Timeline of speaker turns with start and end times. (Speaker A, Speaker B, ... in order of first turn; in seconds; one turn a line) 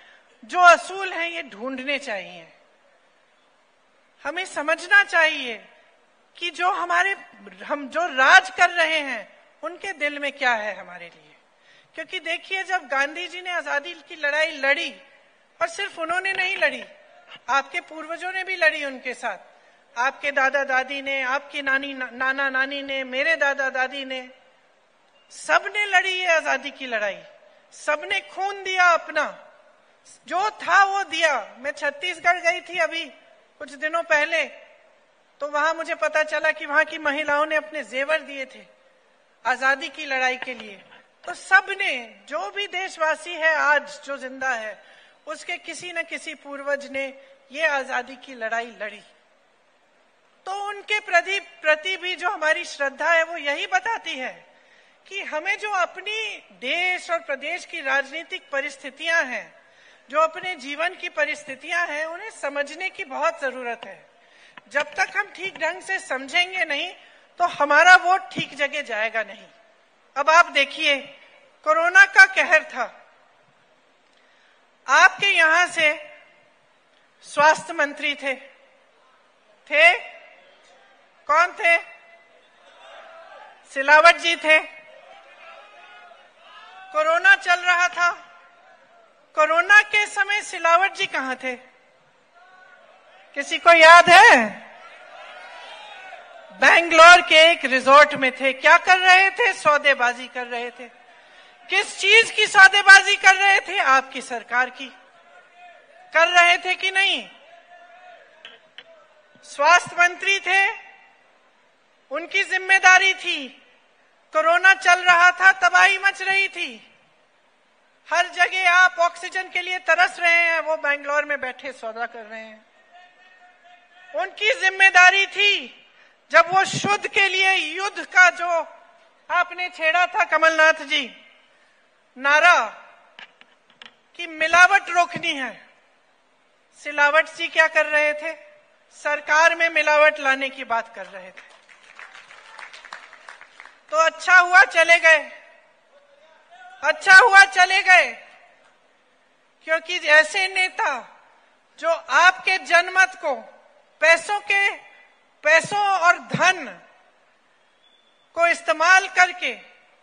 Speaker A: 0.5-2.5
Speaker A: 4.2-5.6
Speaker A: 6.3-11.4
Speaker A: 11.9-15.0
Speaker A: 15.6-16.9
Speaker A: 17.5-19.4
Speaker A: 20.0-24.3
Speaker A: 25.3-29.4
Speaker A: 30.2-34.5
Speaker A: 35.4-38.7
Speaker A: 39.4-49.0
Speaker A: 50.4-54.4
Speaker A: 55.0-59.5
Speaker A: 60.1-64.0
Speaker A: 64.7-69.5
Speaker A: 70.1-71.1
Speaker A: 71.6-72.9
Speaker A: 74.9-76.0
Speaker A: 77.2-78.4
Speaker A: 79.7-80.0
Speaker A: 81.3-81.8
Speaker A: 83.7-84.7
Speaker A: 86.9-88.2
Speaker A: 89.3-91.6
Speaker A: 93.3-94.7
Speaker A: 96.6-100.9
Speaker A: 101.7-104.9
Speaker A: 106.1-107.3
Speaker A: 109.4-110.8
Speaker A: 112.1-113.6
Speaker A: 114.3-116.8
Speaker A: 118.1-122.6
Speaker A: 124.1-125.7
Speaker A: 126.3-128.7
Speaker A: 129.3-131.1
Speaker A: 132.2-132.7
Speaker A: 134.1-135.6
Speaker A: 136.7-138.3
Speaker A: 138.9-141.5
Speaker A: 143.9-145.3
Speaker A: 146.8-148.2
Speaker A: 149.6-151.1
Speaker A: 151.8-153.5
Speaker A: 154.0-154.8
Speaker A: 155.4-156.8
Speaker A: 158.3-159.6